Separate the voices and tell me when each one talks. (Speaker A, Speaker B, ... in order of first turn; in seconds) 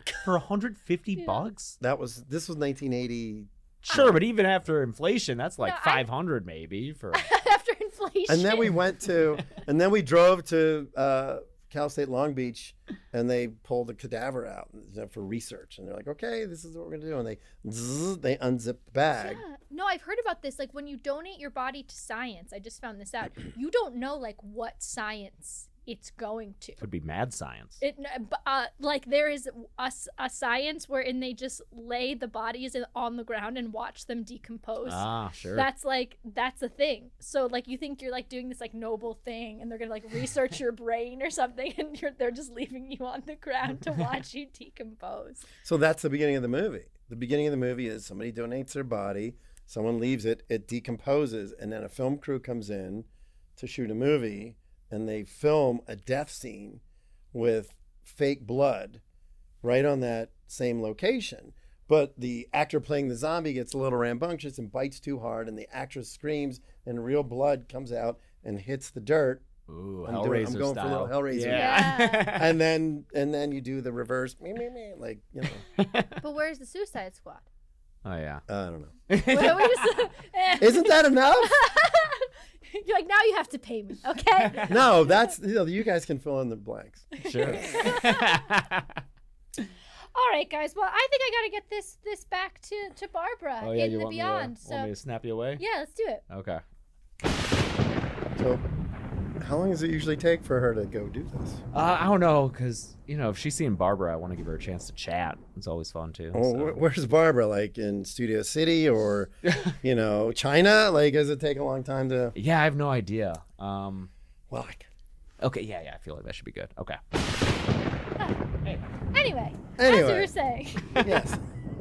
Speaker A: 0.1-1.8, 3.9-7.3, 26.8-27.8, 34.8-35.7, 69.7-72.5, 75.8-76.2, 78.0-78.4, 79.1-80.0, 84.4-84.9, 87.2-89.0, 93.6-95.6, 96.3-96.6, 101.7-106.8, 112.3-114.1, 115.4-117.0
Speaker B: 1.2-1.5, 5.6-6.0, 7.1-8.8, 19.2-26.8, 27.8-45.5, 71.5-72.3, 76.2-77.4, 79.2-85.2, 87.2-88.5, 90.1-94.9, 95.6-96.2, 119.1-121.2
Speaker C: 1.8-4.2, 8.3-19.4, 45.6-56.8, 57.3-59.0, 59.6-69.5, 70.0-75.6, 78.5-78.9, 80.6-81.6, 84.7-87.8, 98.4-98.7, 99.4-101.6, 106.3-112.3, 114.5-114.9, 119.8-120.3, 120.9-121.4